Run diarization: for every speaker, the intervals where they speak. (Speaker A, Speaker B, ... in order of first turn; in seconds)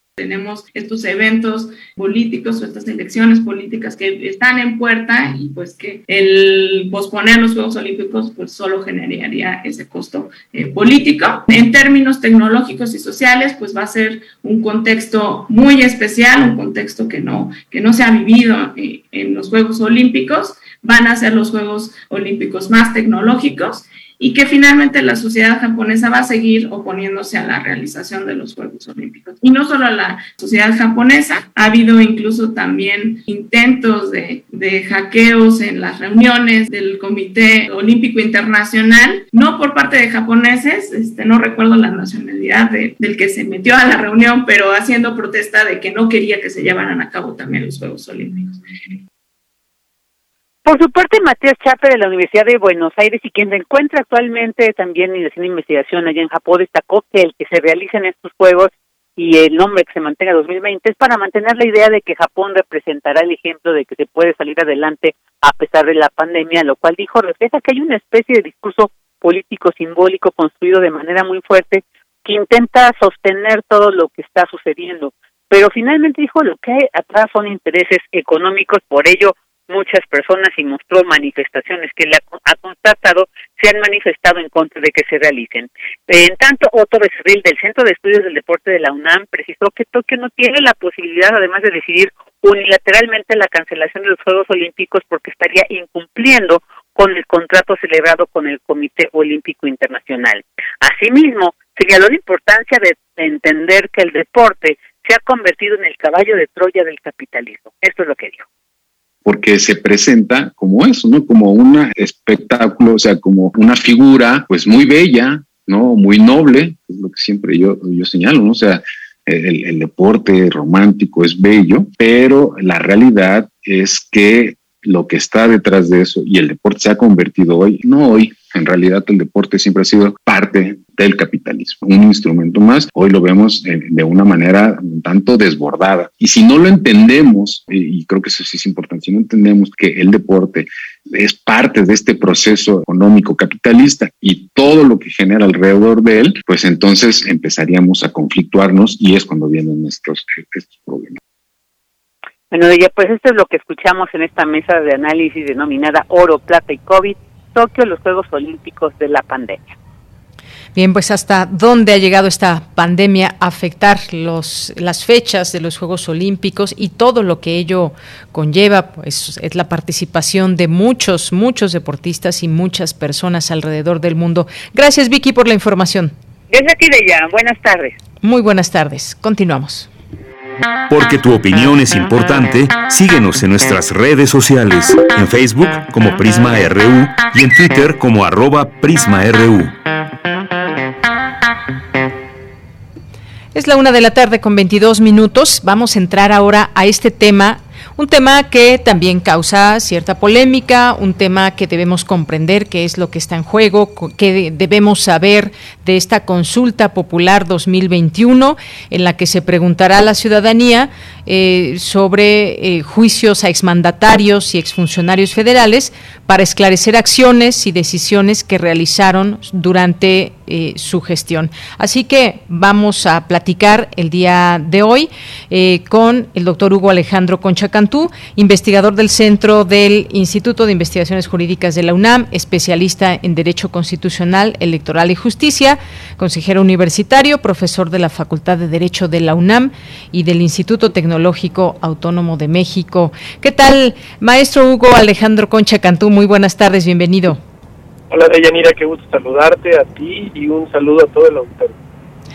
Speaker A: 0.2-49.0
Speaker B: 50.6-108.4, 152.5-159.8, 176.5-178.0
Speaker C: 109.2-151.2
Speaker D: 160.7-176.1, 178.2-179.9, 193.5-247.4
Speaker E: 180.9-189.8
Speaker F: 248.1-251.7